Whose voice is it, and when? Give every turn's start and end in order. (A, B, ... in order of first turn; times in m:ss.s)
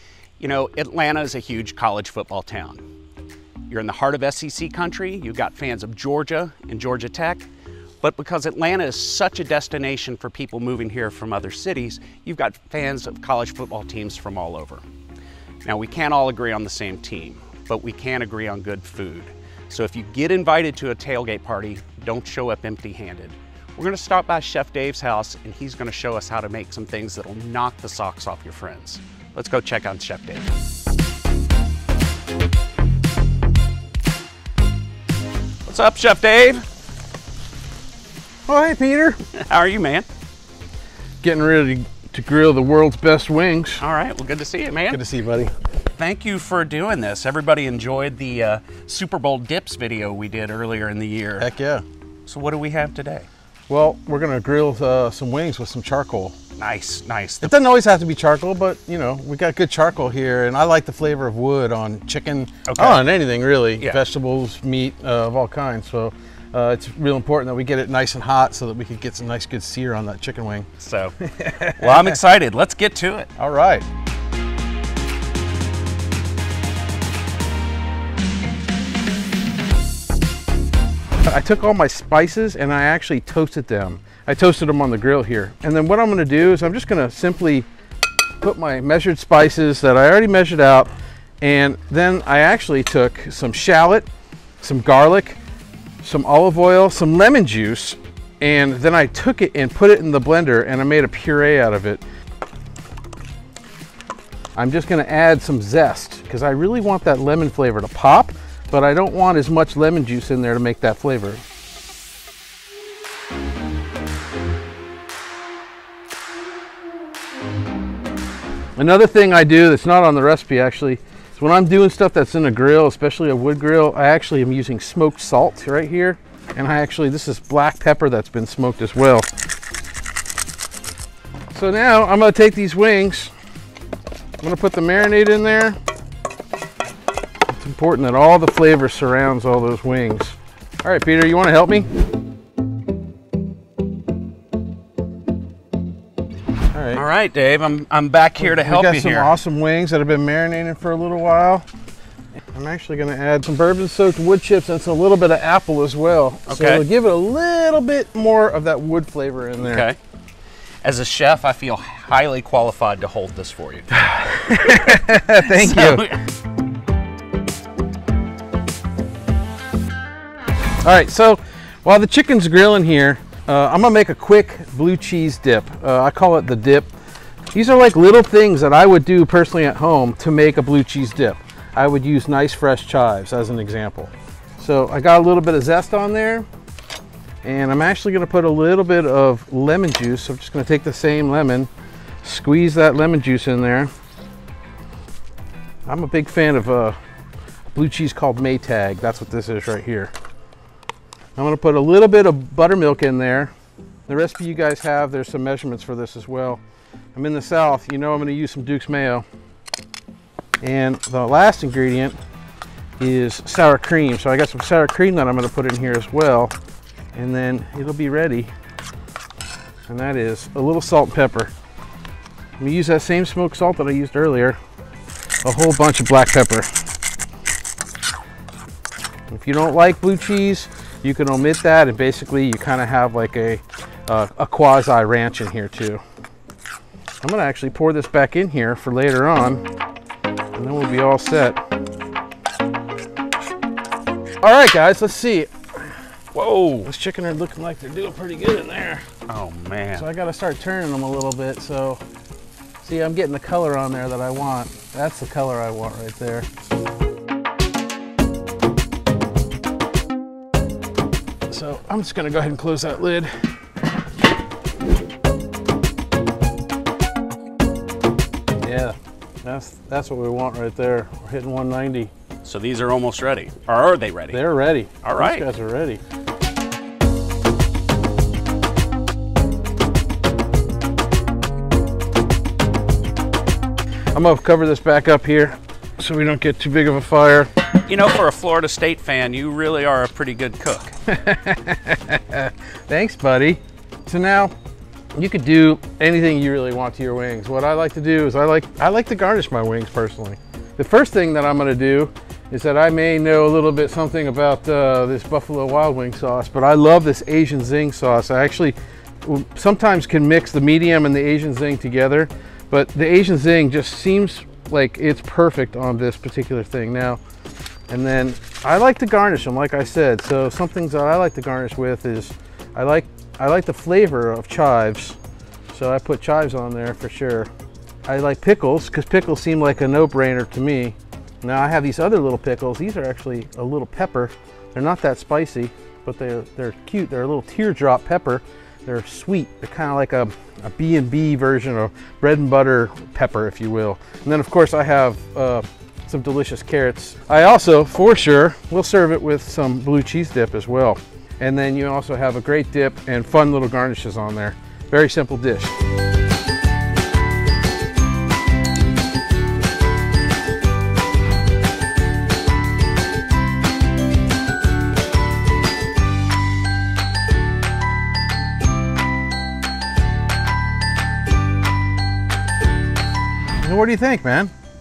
0:00.4-0:02.8 A
0:03.7-0:07.5 A
0:08.0-0:14.8 A
0:15.6-0:30.5 A
0:35.7-0:36.6 A
0:38.5-0:39.2 B
0:39.4-0:40.1 A
0:41.2-0:43.8 B
0:43.8-0:45.0 A
0:44.9-0:45.5 B
0:46.0-0:51.5 A
0:51.4-0:51.8 B
0:52.3-0:53.3 A
0:53.7-0:56.4 B
0:56.6-0:57.5 A
0:57.4-1:10.7 B
1:02.7-1:03.0 A
1:10.8-1:11.2 A
1:11.2-1:12.2 B
1:11.8-1:13.3 A
1:13.4-1:13.9 B
1:21.2-1:27.7 B
1:28.4-1:34.1 B
1:34.6-1:35.4 B
1:36.0-1:42.0 B
1:44.6-1:51.4 B
1:58.8-2:09.3 B
2:11.5-2:13.3 B
2:14.4-2:15.8 B
2:17.5-2:21.9 B
2:26.7-2:27.0 B
2:26.9-2:29.4 A
2:28.4-2:31.7 B
2:32.5-2:39.9 B
2:36.5-2:36.8 A
2:39.6-2:40.0 A
2:40.8-2:43.9 A
2:44.0-2:46.1 B
2:45.4-2:46.2 A
2:50.8-2:56.9 B
2:57.5-3:06.5 B
3:07.4-3:11.7 B
3:12.2-3:13.9 B
3:15.9-3:17.0 B
3:17.8-3:20.1 B
3:21.4-3:23.5 B
3:24.1-3:26.6 B
3:27.2-3:29.3 B
3:30.6-3:32.2 B
3:33.0-3:36.5 B
3:37.1-3:38.5 B
3:39.9-3:41.5 B
3:42.6-3:44.6 B
3:45.4-3:46.7 B
3:49.3-3:56.0 B
3:57.2-3:59.6 B
4:00.6-4:01.6 B
4:04.4-4:05.5 B
4:06.3-4:06.9 A
4:06.8-4:09.0 B
4:09.3-4:10.1 A
4:09.9-4:12.0 B
4:12.8-4:16.5 B
4:21.5-4:23.3 B
4:28.6-4:32.1 B
4:32.4-4:34.4 A
4:34.3-4:36.0 B
4:35.0-4:35.4 A
4:44.2-4:47.5 B
4:47.9-4:51.0 A
4:51.1-4:54.5 B
4:55.2-5:17.2 B
5:17.9-5:25.2 B
5:25.7-5:27.5 B
5:28.1-5:55.7 B
6:13.6-6:14.5 B